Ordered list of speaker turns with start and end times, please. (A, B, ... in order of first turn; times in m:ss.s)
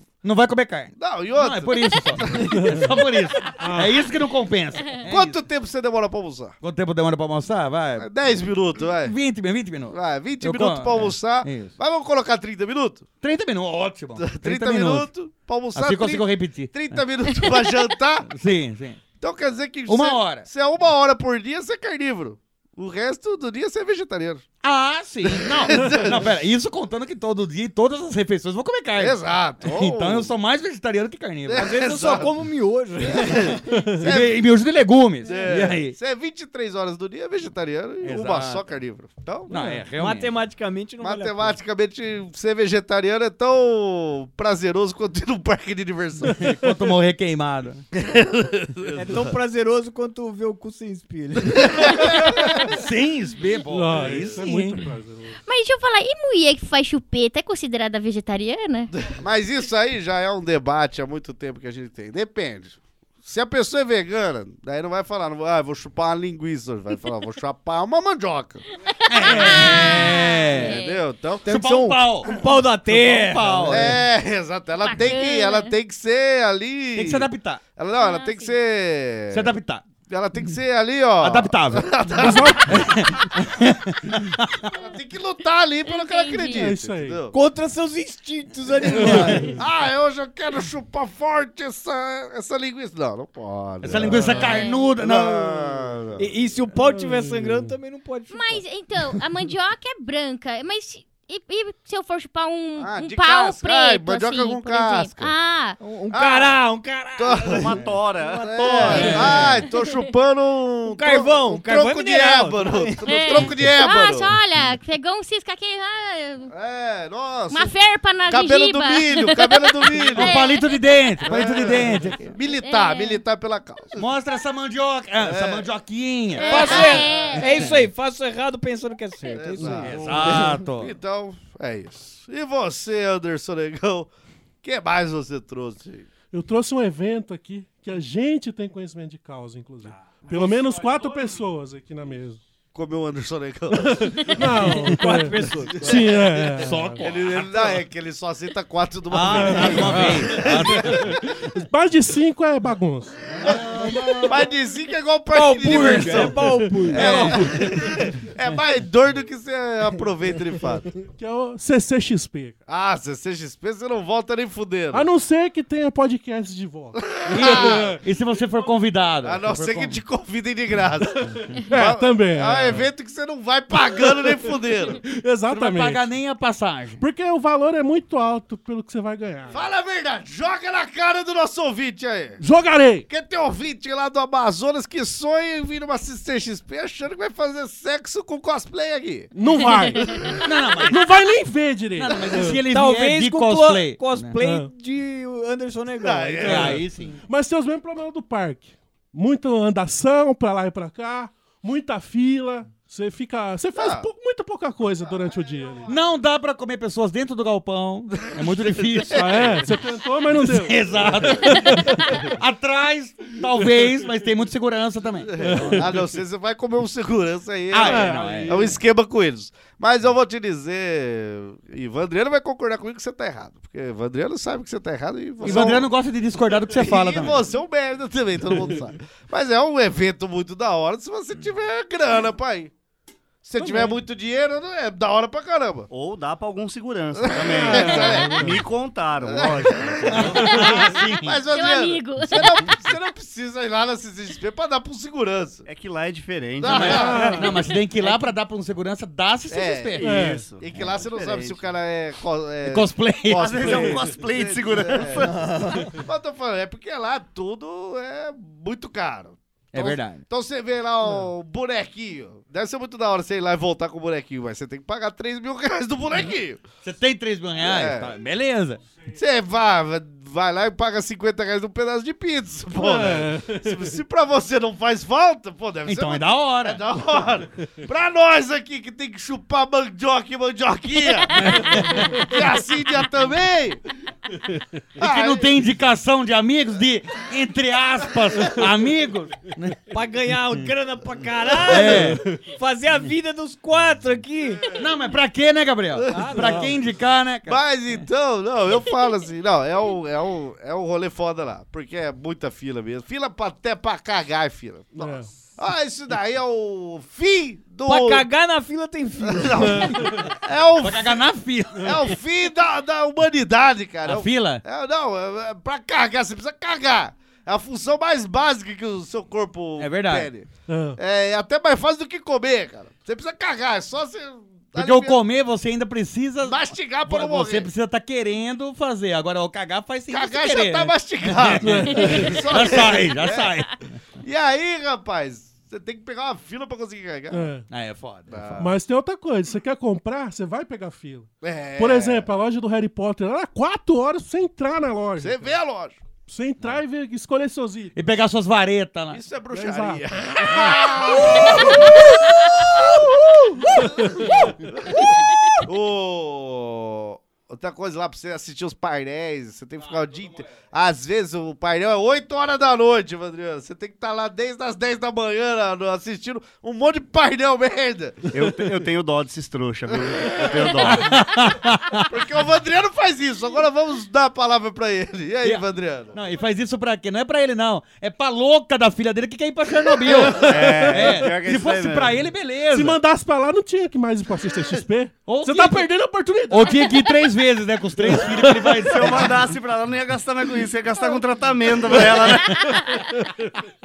0:00.2-0:05.4 A
0:01.0-0:03.1 B
0:02.5-0:02.8 C
0:03.6-0:04.1 C
0:05.1-0:06.6 B
0:06.6-0:08.1 A
0:08.0-0:09.1 B
0:09.0-0:11.8 A
0:09.9-0:13.1 B
0:13.2-0:15.1 A
0:14.2-0:18.3 B
0:15.7-0:17.0 A
0:18.3-0:19.0 A
0:19.2-0:24.4 B
0:19.9-0:20.5 A
0:24.6-0:32.2 A
0:25.2-0:26.3 B
0:29.0-0:30.3 B
0:31.5-0:32.3 B
0:31.5-0:33.6 D
0:33.0-0:34.4 B
0:33.7-0:34.0 C
0:34.0-0:36.0 A
0:35.2-0:39.5 B
0:38.0-0:38.6 A
0:39.5-0:40.3 A
0:39.5-0:41.6 D
0:41.0-0:46.5 B
0:46.4-0:47.8 A
0:47.9-0:49.3 B
0:48.9-0:52.2 D
0:51.6-0:52.6 B
0:52.6-0:54.8 A
0:53.7-0:55.4 C
0:55.4-0:58.9 E
0:58.9-1:08.6 B
1:09.1-1:10.8 A
1:09.1-1:11.0 E
1:09.3-1:10.0 B
1:10.5-1:11.4 B
1:11.4-1:13.9 D
1:11.4-1:12.3 A
1:12.9-1:14.0 A
1:13.7-1:17.2 B
1:14.8-1:15.7 E
1:17.0-1:17.6 A
1:17.8-1:19.5 B
1:18.0-1:18.6 E
1:19.3-1:19.8 A
1:20.1-1:22.9 B
1:21.2-1:24.7 A
1:22.2-1:22.7 C
1:24.7-1:27.3 B
1:25.8-1:26.7 E
1:26.5-1:27.2 C
1:27.3-1:29.6 D
1:28.9-1:29.6 C
1:29.6-1:36.3 B
1:33.8-1:35.9 A
1:34.0-1:34.5 C
1:34.4-1:34.9 E
1:36.2-1:38.6 D
1:36.8-1:37.7 C
1:38.3-1:45.8 E
1:42.8-1:45.3 B
1:45.8-1:49.5 D
1:46.1-1:46.6 B
1:47.2-1:47.8 B
1:47.4-1:49.4 F
1:48.4-1:54.4 B
1:49.0-1:50.0 E
1:50.9-1:53.0 D
1:53.0-1:56.5 E
1:56.5-1:57.7 B
1:57.5-2:00.9 E
1:58.3-2:00.4 B
2:00.1-2:02.3 A
2:01.2-2:04.0 B
2:02.5-2:03.2 E
2:04.0-2:07.8 A
2:05.2-2:05.6 B
2:06.3-2:07.7 E
2:06.4-2:10.6 D
2:06.5-2:07.4 B
2:09.3-2:14.1 B
2:09.7-2:10.4 C
2:09.8-2:10.9 A
2:14.6-2:16.1 B
2:16.3-2:22.4 C
2:22.7-2:24.7 B
2:23.7-2:27.0 C
2:24.6-2:25.7 A
2:25.0-2:26.0 D
2:25.4-2:26.3 B
2:26.4-2:27.8 A
2:27.0-2:31.2 B
2:29.1-2:31.2 A
2:29.3-2:33.2 C
2:33.4-2:33.7 B
2:33.8-2:34.3 D
2:33.9-2:34.1 C
2:34.2-2:41.0 B
2:35.3-2:37.4 D
2:35.8-2:36.1 A
2:36.2-2:37.9 C
2:37.0-2:37.4 A
2:41.0-2:42.6 C
2:42.7-2:45.1 B
2:44.9-2:48.0 C
2:47.0-2:47.9 B
2:47.3-2:50.0 A
2:49.2-2:55.0 B
2:51.3-2:52.9 C
2:55.0-2:56.0 C
2:55.5-2:57.0 A
2:57.0-2:59.6 C
2:59.5-3:02.4 B
3:02.4-3:03.0 C
3:03.1-3:09.3 B
3:09.3-3:12.6 C
3:09.8-3:10.2 E
3:10.4-3:11.3 A
3:11.9-3:14.3 A
3:12.7-3:16.7 D
3:14.4-3:14.7 C
3:16.0-3:16.8 B
3:16.4-3:25.9 C
3:16.4-3:17.2 A
3:23.7-3:24.1 B
3:25.0-3:25.9 B
3:25.9-3:29.6 A
3:28.4-3:29.7 B
3:29.1-3:32.0 C
3:30.4-3:35.8 A
3:35.3-3:45.9 B
3:35.4-3:36.0 C
3:37.7-3:38.8 A
3:37.8-3:38.8 C
3:45.4-3:47.4 A
3:45.4-3:45.8 C
3:46.7-3:52.7 B
3:53.4-3:55.9 B
3:53.6-3:54.0 C
3:55.9-4:00.5 F
3:57.2-3:58.6 B
3:57.6-3:58.6 C
3:59.2-4:05.6 B
4:00.1-4:01.4 A
4:00.4-4:02.8 E
4:00.6-4:00.9 C
4:05.6-4:07.4 F
4:06.6-4:07.5 B
4:06.6-4:10.2 A
4:06.9-4:07.6 C
4:09.5-4:26.6 B
4:10.0-4:10.5 C
4:10.2-4:11.7 F
4:10.7-4:11.0 A
4:12.6-4:13.9 A
4:13.4-4:15.3 F
4:15.2-4:15.9 D
4:19.7-4:20.2 A
4:21.0-4:21.3 C
4:26.8-4:28.8 A
4:27.6-4:28.1 B
4:29.2-4:43.8 B
4:32.7-4:33.9 C
4:35.8-4:36.8 A
4:41.2-4:41.6 E
4:41.4-4:41.8 A
4:41.7-4:42.0 C
4:45.0-4:45.5 B
4:45.0-4:49.8 A
4:49.9-4:54.6 D
4:51.7-4:52.2 A
4:52.2-4:52.4 C
4:54.5-4:54.9 B
4:54.8-4:57.6 A
4:55.9-4:56.6 B
4:56.1-4:56.7 D
4:56.4-4:56.7 C
4:57.4-5:08.2 B
5:05.0-5:05.3 C
5:07.8-5:10.2 D
5:09.2-5:11.2 B
5:09.8-5:10.2 C
5:10.8-5:12.1 A
5:11.8-5:25.2 B
5:14.0-5:14.6 A
5:19.8-5:20.3 A
5:20.7-5:21.0 C
5:24.8-5:33.8 A
5:26.4-5:27.7 B
5:30.1-5:33.5 B
5:31.6-5:32.4 C
5:34.2-5:37.5 B
5:37.3-5:37.7 C
5:37.7-5:38.6 A
5:38.3-5:38.8 B
5:38.6-5:45.5 C
5:41.4-5:42.3 B
5:45.2-5:46.0 B
5:46.2-5:48.0 C
5:48.0-5:49.2 A
5:49.1-5:55.1 B
5:49.5-5:50.0 C
5:50.5-5:51.6 A
5:51.5-5:51.9 C
5:53.8-5:54.5 C
5:55.6-6:08.5 B
5:59.8-6:00.5 A
6:08.3-6:11.1 F
6:09.9-6:11.2 B
6:11.0-6:12.1 A
6:12.0-6:16.1 B
6:15.4-6:23.0 A
6:20.0-6:21.2 C
6:20.4-6:22.2 F
6:22.7-6:27.1 C
6:25.2-6:29.4 A
6:28.0-6:29.0 C
6:28.8-6:32.6 F
6:32.1-6:33.6 C
6:32.6-6:33.0 E